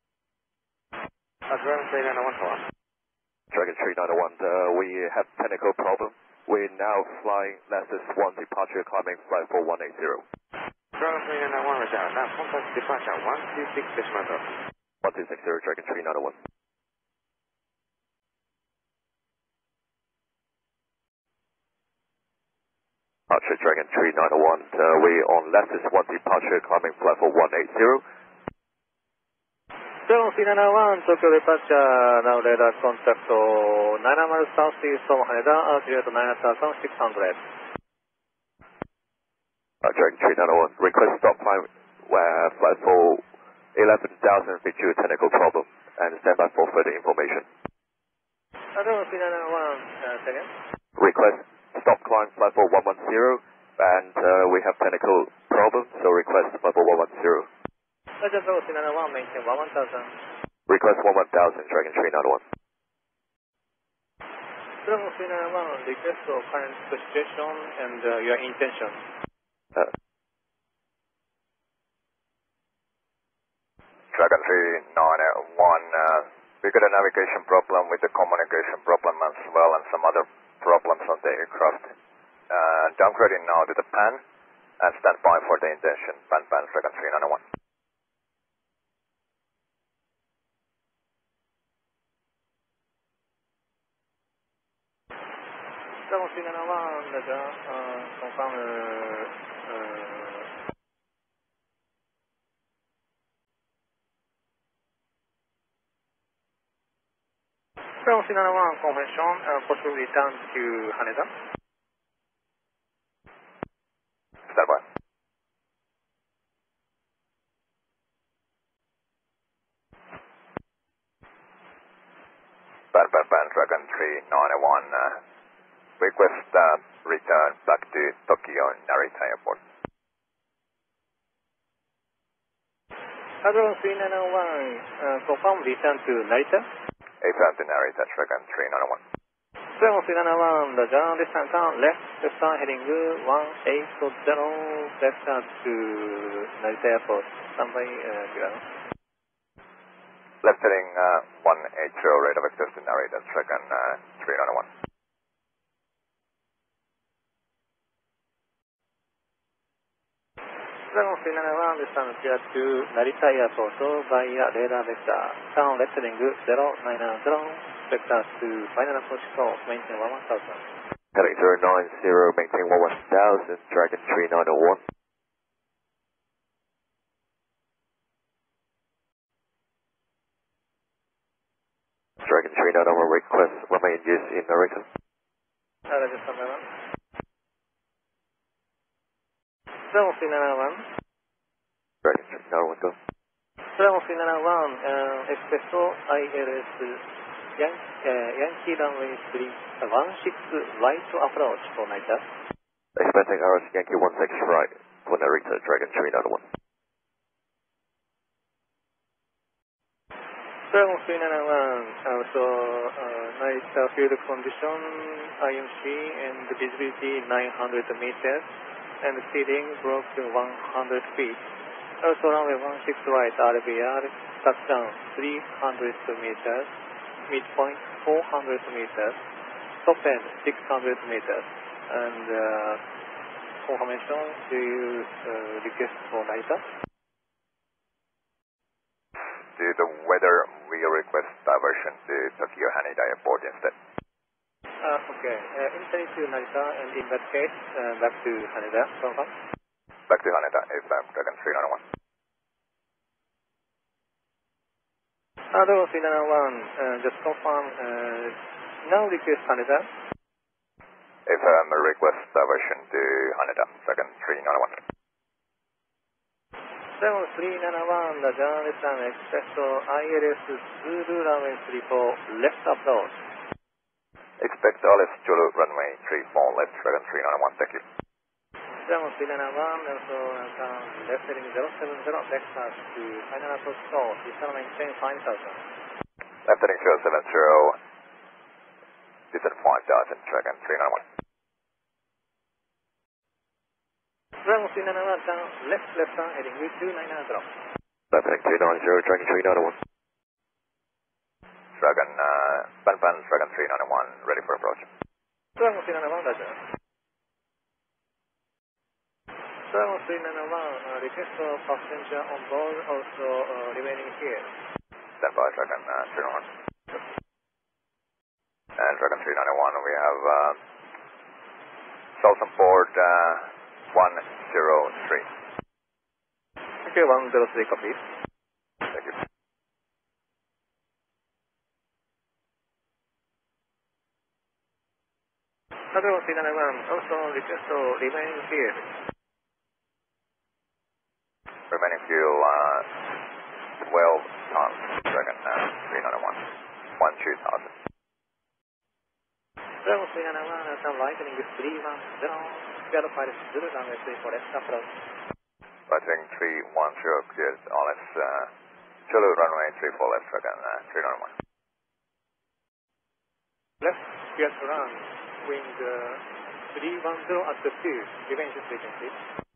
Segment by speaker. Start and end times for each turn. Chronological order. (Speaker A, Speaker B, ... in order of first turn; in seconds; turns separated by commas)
Speaker A: 1.5-2.6, Speaker B: 3.5-10.2, Speaker A: 11.0-14.6, Speaker B: 15.0-16.4, Speaker B: 23.3-28.0, Speaker C: 30.1-37.4, Speaker B: 39.8-43.2, Speaker B: 43.7-47.5, Speaker C: 48.7-50.5, Speaker B: 51.0-57.5, Speaker C: 58.2-60.1, Speaker B: 60.7-62.4, Speaker C: 64.8-69.0, Speaker D: 74.1-81.9, Speaker D: 82.5-84.2, Speaker D: 84.8-87.4, Speaker C: 96.1-100.5, Speaker C: 108.0-111.3, Speaker D: 114.5-114.8, Speaker D: 122.9-125.2, Speaker D: 126.0-129.6, Speaker C: 133.4-136.7, Speaker D: 137.2-139.0, Speaker C: 139.8-148.6, Speaker D: 150.4-154.7, Speaker C: 160.9-170.6, Speaker B: 171.1-174.8, Speaker B: 182.2-184.8, Speaker C: 185.9-186.7, Speaker C: 189.9-190.8, Speaker B: 192.0-192.9, Speaker C: 193.8-197.0, Speaker C: 197.6-202.2, Speaker B: 202.9-206.4, Speaker C: 210.7-218.5, Speaker C: 219.0-221.4, Speaker C: 222.0-226.7, Speaker C: 227.3-229.2, Speaker C: 229.8-232.8, Speaker C: 233.6-236.6, Speaker D: 239.6-243.7, Speaker C: 244.8-249.3, Speaker D: 250.1-251.8, Speaker C: 255.5-259.9, Speaker D: 261.2-264.8, Speaker C: 267.0-273.2, Speaker D: 274.4-277.8, Speaker C: 278.9-285.6, Speaker D: 286.4-287.8, Speaker D: 289.3-291.0, Speaker C: 294.4-297.5, Speaker B: 298.1-299.7, Speaker D: 301.8-304.9, Speaker C: 305.6-306.6, Speaker C: 309.6-314.5, Speaker D: 315.2-316.5, Speaker D: 318.8-320.6, Speaker D: 322.2-325.3, Speaker C: 326.8-328.0, Speaker C: 335.9-339.0, Speaker D: 341.7-342.9, Speaker D: 343.8-347.7, Speaker C: 349.8-354.9, Speaker D: 355.9-358.5, Speaker D: 359.1-361.3, Speaker C: 363.8-369.2